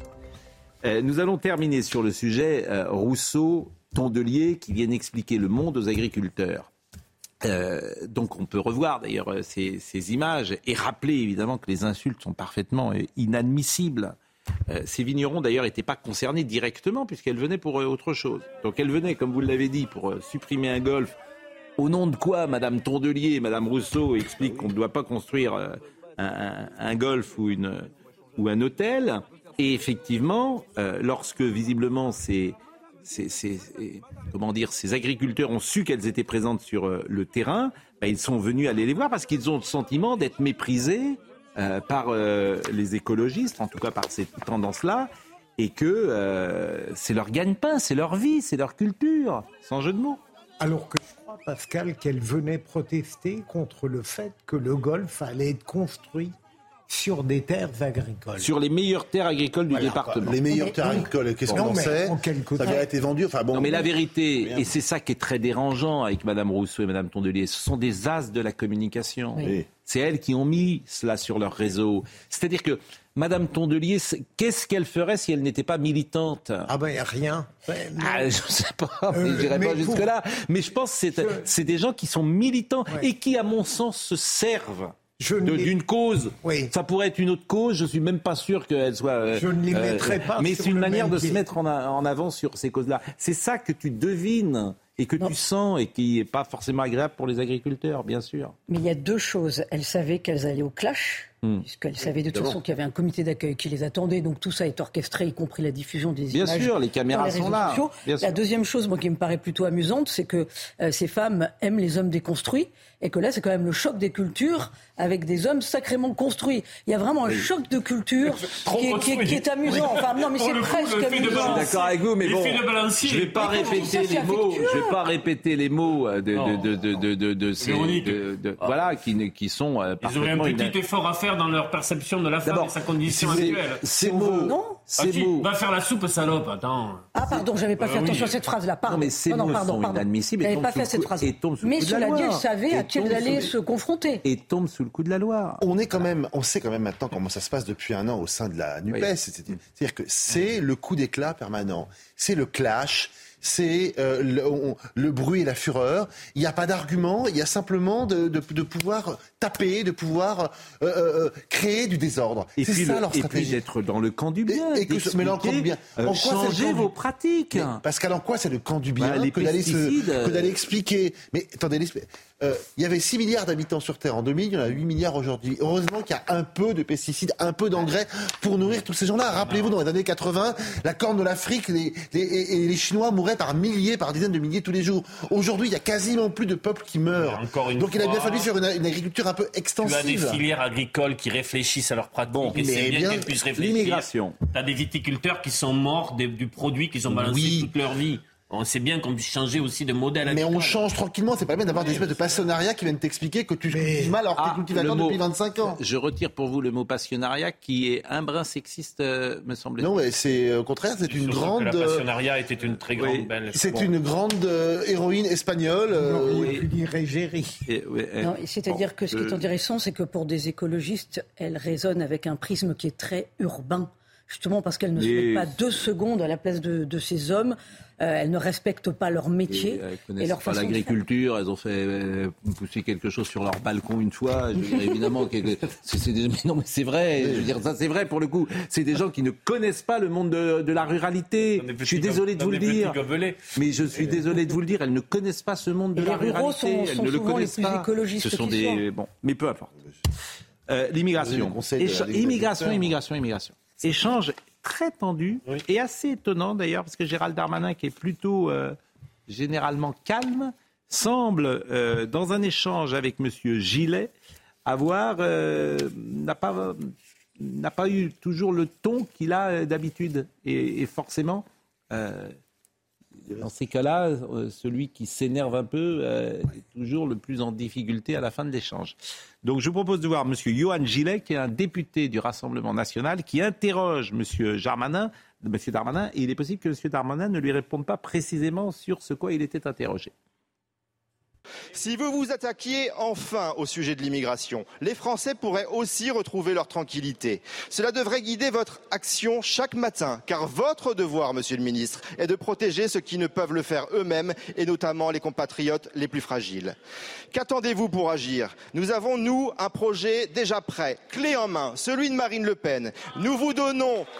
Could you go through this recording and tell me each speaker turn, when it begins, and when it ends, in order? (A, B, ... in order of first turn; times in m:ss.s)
0:00.8-0:06.7 A
0:07.4-0:14.1 A
0:14.7-0:21.1 A
0:21.8-0:50.2 A
0:24.4-0:24.7 B
0:50.6-0:56.3 C
0:56.9-0:58.5 C
0:58.4-1:00.4 A
0:59.7-1:04.7 B
1:00.7-1:02.8 C
1:03.5-1:16.7 A
1:09.4-1:09.6 B
1:16.7-1:18.3 C
1:18.0-1:38.5 A
1:19.1-1:20.1 C
1:21.1-1:21.5 C
1:25.2-1:25.7 C
1:26.4-1:26.7 C
1:29.3-1:31.4 C
1:38.7-2:01.8 D
1:42.3-1:42.6 B
1:46.3-1:48.4 A
1:58.5-2:04.2 E
2:01.2-2:10.8 A
2:03.4-2:05.0 D
2:06.3-2:06.8 E
2:07.6-2:08.8 E
2:10.0-2:17.1 E
2:12.4-2:15.5 A
2:14.4-2:14.8 D
2:17.1-2:24.2 D
2:17.8-2:18.4 E
2:18.8-2:23.5 A
2:24.2-2:26.0 A
2:25.6-2:43.6 B
2:42.6-2:47.8 A
2:44.5-2:46.9 B
2:47.5-3:10.4 B
2:49.0-2:50.6 A
3:07.1-3:08.5 E
3:09.8-3:20.8 E
3:12.3-3:12.6 A
3:12.5-3:13.3 B
3:13.6-3:14.4 A
3:17.1-3:17.7 B
3:20.2-3:25.8 B
3:23.7-3:24.2 C
3:24.4-3:29.9 A
3:29.8-3:32.0 B
3:31.1-3:33.9 E
3:32.9-3:33.3 A
3:33.5-3:36.6 B
3:35.9-3:37.5 C
3:36.3-3:36.6 A
3:37.6-3:39.4 A
3:38.2-3:50.9 D
3:45.0-3:45.6 A
3:49.5-4:03.0 A
3:57.2-3:57.5 B
4:01.6-4:03.6 E
4:03.5-4:09.7 A
4:06.0-4:08.8 D
4:10.7-4:18.8 A
4:11.2-4:13.0 B
4:19.3-4:24.1 A
4:24.6-4:32.4 A
4:33.3-4:50.1 A
4:51.7-5:06.8 F
5:07.3-5:14.1 F